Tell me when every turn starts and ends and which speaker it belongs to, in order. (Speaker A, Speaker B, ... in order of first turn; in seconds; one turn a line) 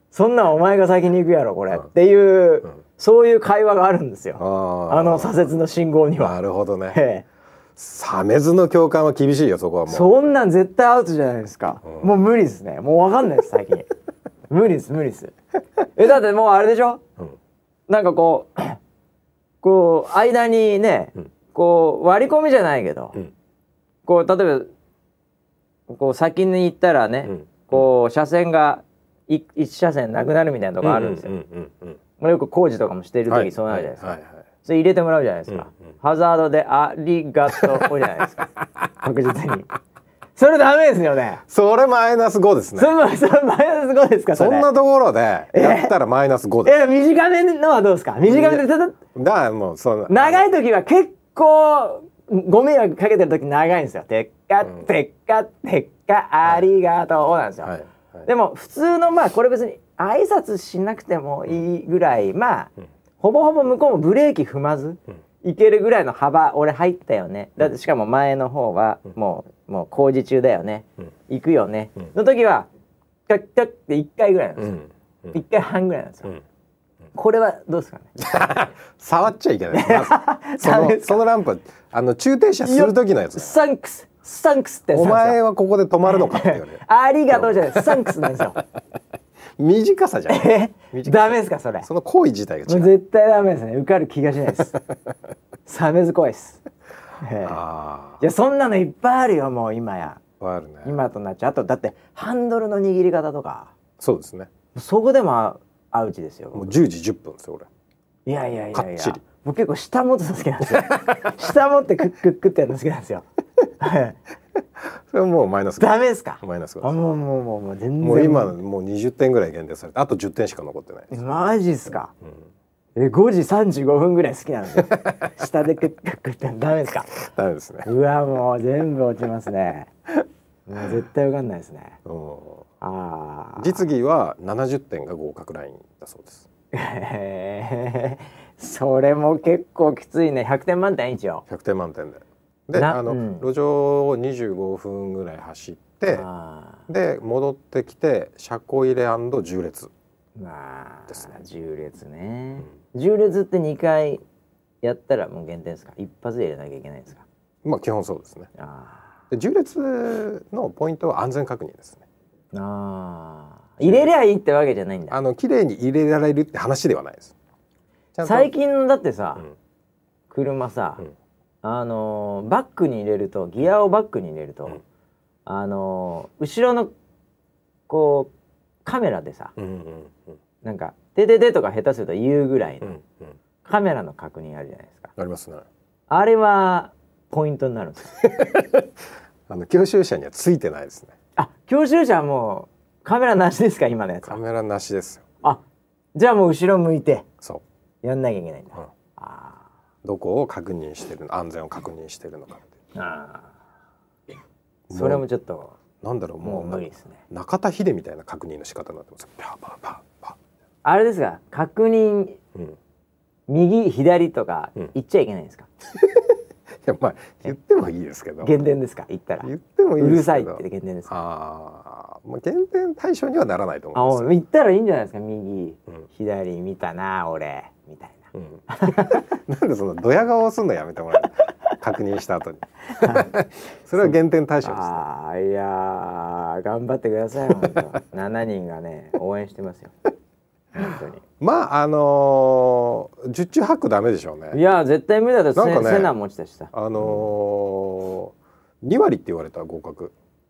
Speaker A: 0.1-6.3
Speaker B: 4.4-5.5
Speaker B: 6.2-7.0
Speaker A: 6.9-7.2
Speaker B: 7.8-10.1
Speaker A: 9.9-13.9
Speaker A: 14.5-15.3
Speaker A: 15.9-17.0
Speaker A: 17.9-18.8
Speaker A: 19.6-23.2
Speaker A: 24.0-24.7
Speaker A: 25.9-31.3
Speaker B: 27.3-27.8
Speaker B: 30.8-32.0
Speaker A: 32.2-38.5
Speaker B: 33.3-34.4
Speaker B: 37.5-37.9
Speaker A: 39.0-39.7
Speaker A: 40.4-41.4
Speaker B: 41.5-42.9
Speaker A: 42.8-44.7
Speaker B: 44.3-46.7
Speaker A: 45.5-45.9
Speaker A: 46.6-49.0
Speaker B: 48.3-50.5
Speaker A: 50.1-57.7
Speaker B: 57.6-58.3
Speaker A: 58.2-72.7
Speaker A: 73.3-74.8
Speaker B: 74.6-75.3
Speaker A: 75.3-76.3
Speaker A: 77.1-78.1
Speaker B: 78.2-83.5
Speaker A: 79.7-81.2
Speaker A: 82.6-85.4
Speaker B: 84.9-88.5
Speaker A: 86.1-88.6
Speaker B: 89.6-92.9
Speaker A: 90.3-91.9
Speaker A: 92.7-94.8
Speaker A: 95.7-96.6
Speaker A: 97.2-97.6
Speaker B: 97.4-98.2
Speaker A: 98.2-100.2
Speaker B: 100.4-101.0
Speaker A: 100.8-103.7
Speaker B: 104.0-104.5
Speaker A: 104.7-106.7
Speaker B: 106.5-107.7
Speaker A: 108.2-113.2
Speaker B: 108.7-109.2
Speaker B: 110.7-111.3
Speaker A: 113.8-114.2
Speaker B: 114.9-117.0
Speaker A: 115.8-118.5
Speaker B: 118.0-121.1
Speaker A: 121.1-122.1
Speaker A: 123.0-127.2
Speaker B: 124.8-125.2
Speaker B: 127.2-127.9
Speaker A: 127.8-129.9
Speaker A: 130.7-132.0
Speaker B: 132.0-132.6
Speaker A: 132.8-133.8
Speaker B: 133.6-136.4
Speaker A: 136.7-141.4
Speaker B: 141.5-146.2
Speaker A: 142.7-143.5
Speaker A: 146.1-146.8
Speaker B: 146.9-149.9
Speaker A: 150.4-154.2
Speaker A: 154.8-157.2
Speaker B: 157.6-158.5
Speaker A: 158.6-159.1
Speaker B: 159.3-162.0
Speaker A: 162.5-165.2
Speaker B: 163.8-164.1
Speaker B: 165.1-167.3
Speaker B: 168.1-168.5
Speaker A: 168.2-169.4
Speaker A: 170.3-171.0
Speaker A: 171.6-174.8
Speaker A: 175.4-176.9
Speaker A: 177.9-178.3
Speaker A: 178.8-179.5
Speaker B: 179.6-180.3
Speaker A: 180.6-183.0
Speaker B: 182.8-183.3
Speaker A: 183.6-185.1
Speaker B: 185.2-185.6
Speaker A: 186.1-188.3
Speaker B: 188.2-188.9
Speaker B: 189.5-191.1
Speaker A: 191.3-194.4
Speaker B: 194.2-195.3
Speaker A: 196.1-197.3
Speaker A: 198.0-199.7
Speaker B: 200.0-202.7
Speaker A: 202.9-203.5
Speaker B: 204.9-205.2
Speaker A: 204.9-205.7
Speaker B: 206.0-210.3
Speaker A: 206.4-207.2
Speaker A: 210.8-212.4
Speaker A: 213.5-215.7
Speaker B: 216.0-216.3
Speaker B: 216.8-218.5
Speaker A: 218.4-221.1
Speaker B: 219.4-224.3
Speaker A: 223.9-229.3
Speaker B: 228.3-235.0
Speaker A: 232.9-233.3
Speaker A: 234.0-239.9
Speaker B: 237.6-237.8
Speaker A: 240.7-241.2
Speaker B: 241.4-244.6
Speaker A: 244.5-247.2
Speaker B: 245.5-246.1
Speaker B: 246.7-250.1